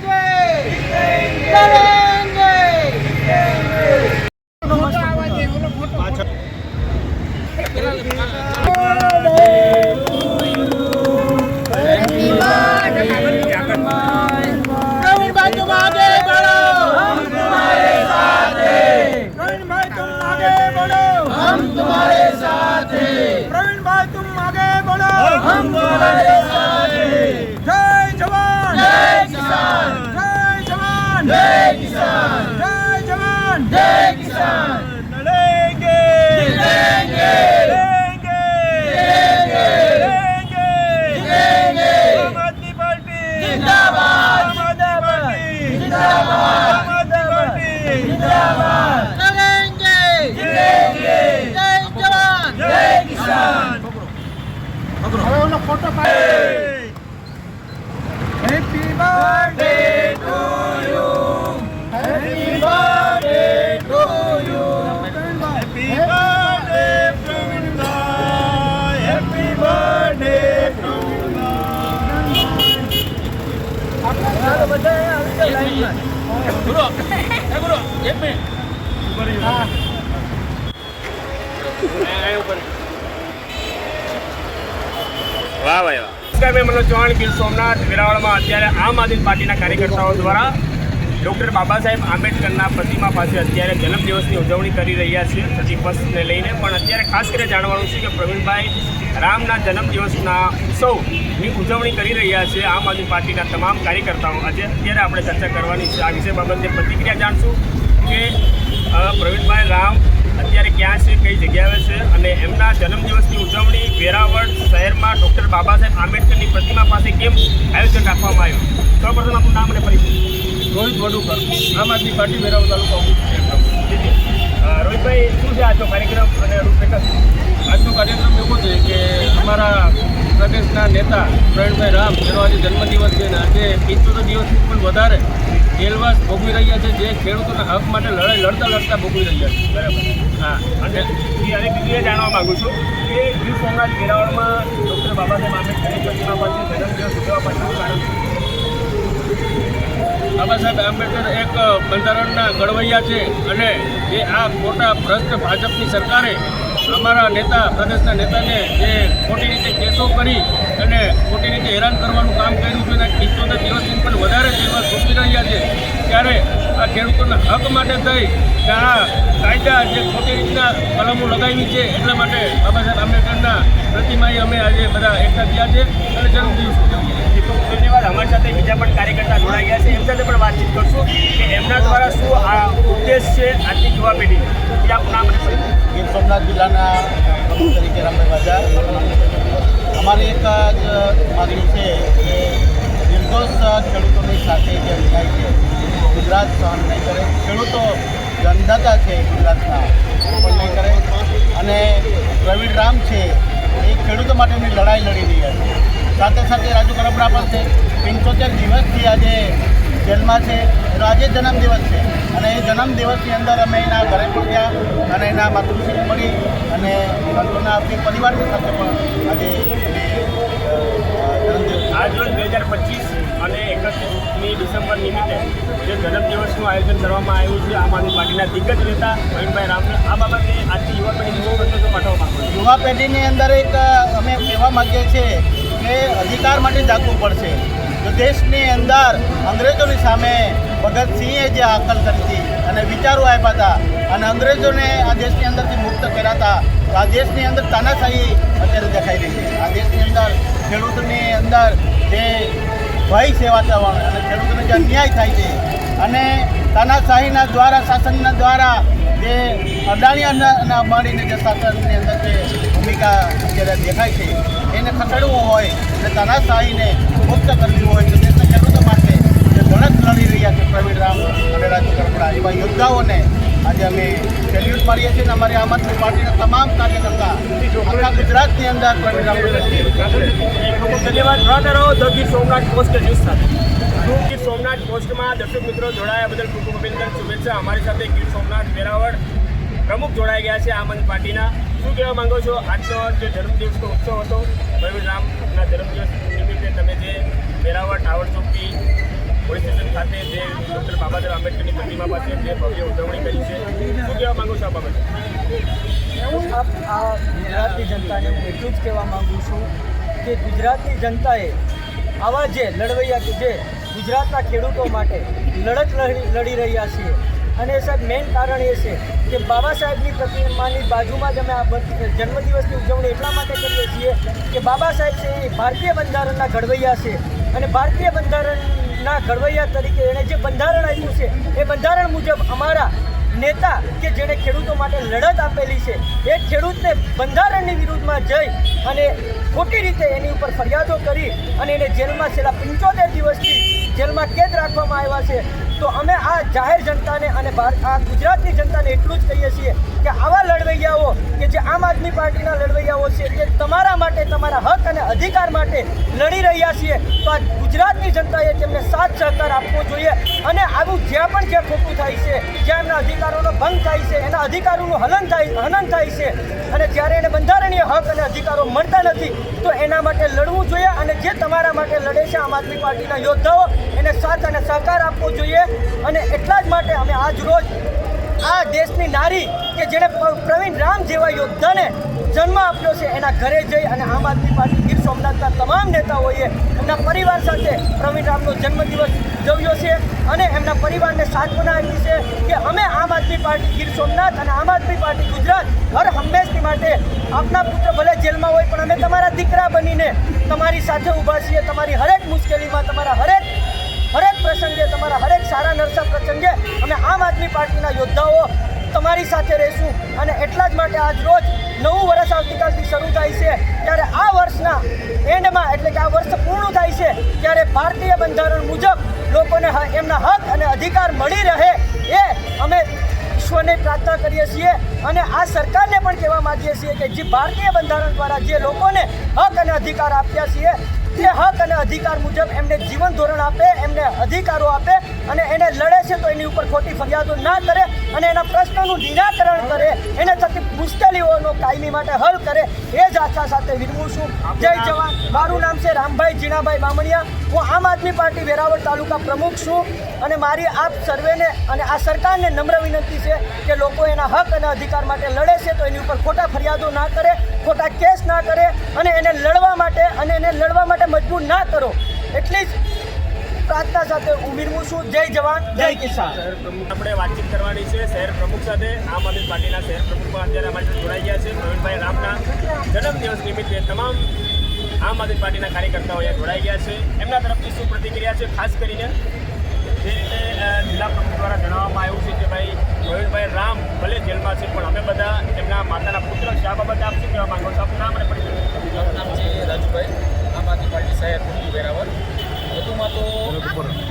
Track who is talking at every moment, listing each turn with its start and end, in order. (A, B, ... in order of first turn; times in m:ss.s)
0:05.9-0:06.2 A
0:08.7-0:10.1 A
0:11.7-0:14.4 A
0:15.1-0:16.5 A
0:20.2-0:20.7 A
0:36.0-0:44.4 B
0:45.0-0:45.8 B
0:46.6-0:48.2 B
1:00.3-1:01.0 B
1:02.3-1:04.1 B
1:05.8-1:11.2 B
1:14.2-1:16.0 C
1:16.6-1:18.4 D
1:21.9-1:22.7 A
1:25.6-1:30.6 A
1:31.2-1:48.4 A
1:48.9-2:00.2 A
2:00.7-2:03.8 B
2:03.8-2:07.1 A
2:07.7-2:15.2 B
2:15.8-2:19.6 B
2:19.7-2:28.3 A
2:30.4-2:57.3 B
2:57.3-3:05.8 A
3:05.9-3:09.4 E
3:10.0-3:42.3 E
3:41.9-3:52.5 A
3:52.5-4:12.5 E
4:13.1-4:39.9 E
4:39.1-4:43.5 A
4:44.0-4:49.2 A
4:49.8-4:58.8 A
4:59.4-5:05.1 A
5:06.2-5:09.7 C
5:10.2-5:11.6 C
5:12.2-6:17.7 C
6:18.4-6:43.5 C
6:44.1-7:42.7 C
7:24.4-7:25.6 A
7:43.6-7:46.4 C
7:45.8-7:54.3 A
7:55.0-7:59.2 A
8:00.0-8:08.8 A
8:08.9-8:12.1 D
8:12.7-8:13.6 D